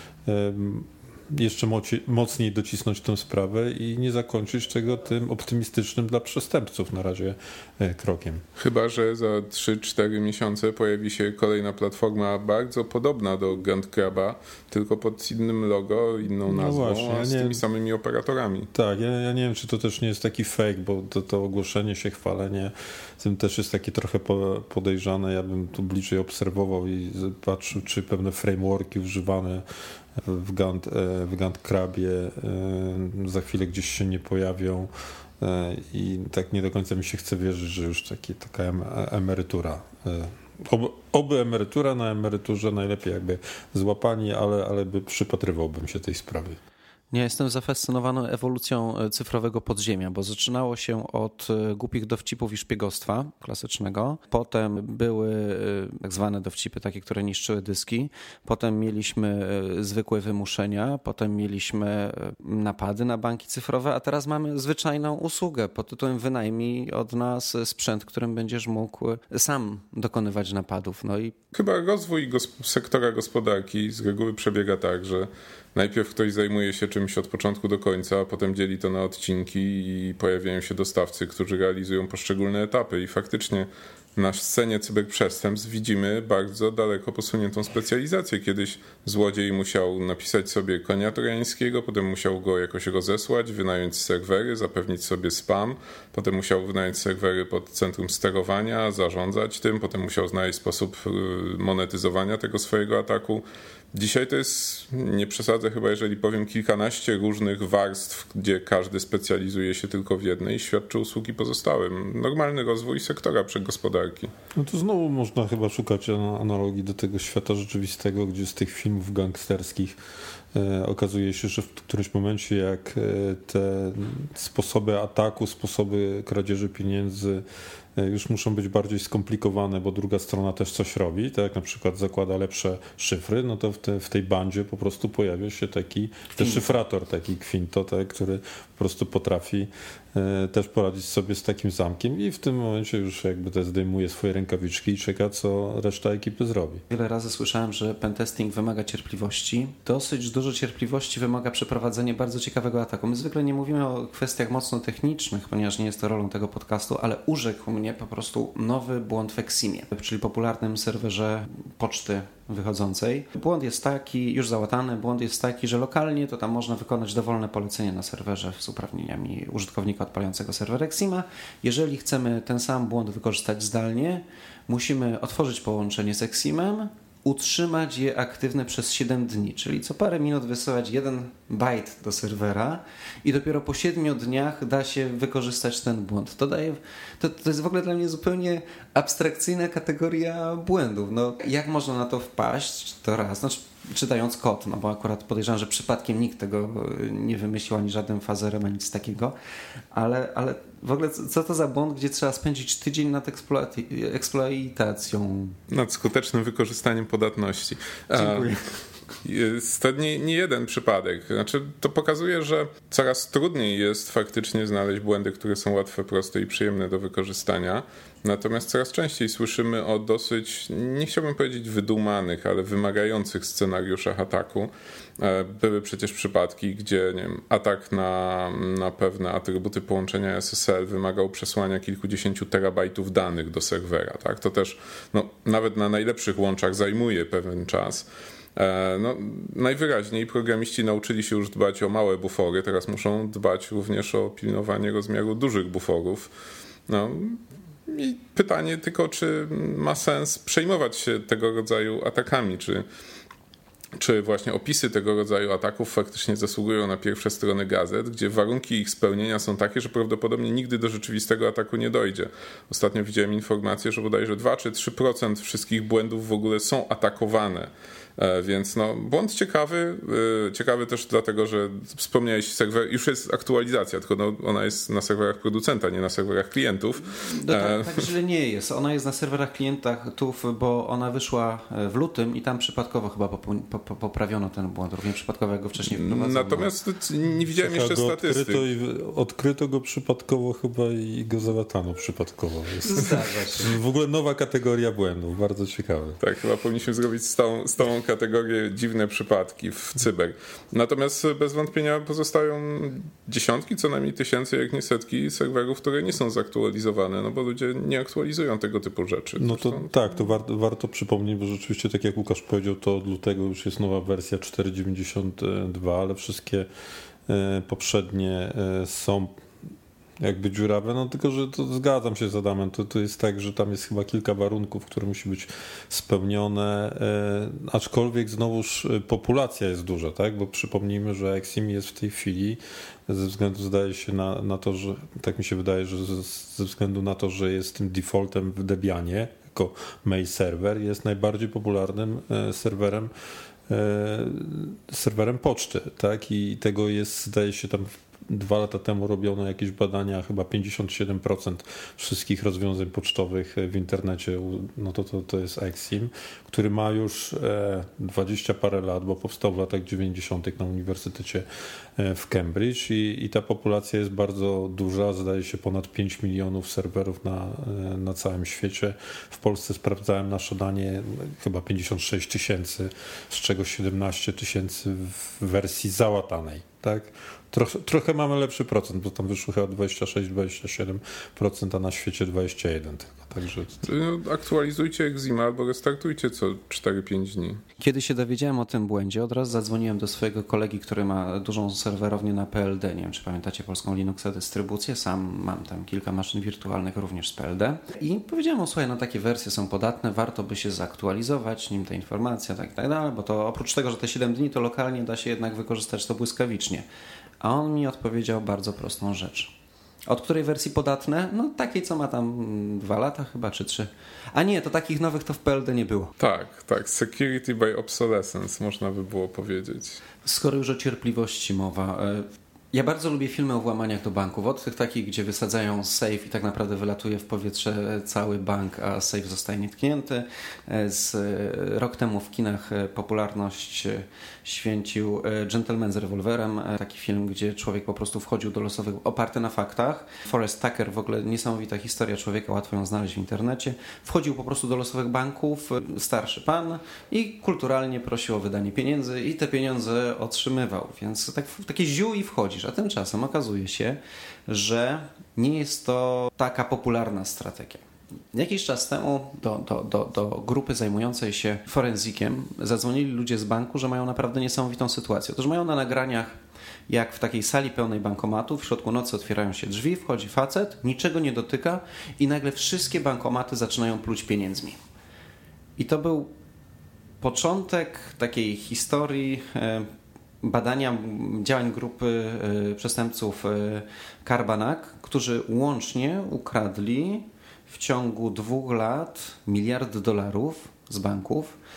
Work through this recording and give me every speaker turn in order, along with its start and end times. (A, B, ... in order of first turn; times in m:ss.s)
0:00.3-0:08.4 A
0:08.6-0:18.7 B
0:16.5-0:17.6 A
0:18.7-0:29.6 A
0:30.2-0:46.6 A
0:47.1-1:11.4 C
1:11.5-1:54.3 B
1:54.6-2:00.0 A
2:00.5-2:07.4 A
2:08.0-2:26.8 A
2:16.4-2:16.8 C
2:26.9-3:19.4 C
3:19.9-3:25.6 C
3:25.7-3:28.6 B
3:28.1-3:28.6 C
3:29.2-4:06.3 B
4:06.9-4:12.8 B
4:14.0-4:38.0 B
4:37.2-4:46.7 C
4:45.8-4:48.6 B
4:47.5-4:56.2 A
4:52.8-4:53.7 C
4:56.2-5:09.9 B
5:09.4-5:16.7 A
5:17.3-5:19.3 A
5:20.2-5:43.1 A
5:43.7-6:01.5 A
6:02.0-6:23.8 A
6:23.8-6:27.6 B
6:27.8-6:46.8 C
6:47.4-6:49.5 C
6:50.1-6:56.1 C
6:56.2-7:00.0 B
7:00.2-7:37.8 C
7:38.3-7:46.4 C
7:46.9-7:54.8 C
7:55.8-7:56.3 C
7:57.2-7:59.9 C
8:00.4-8:11.6 C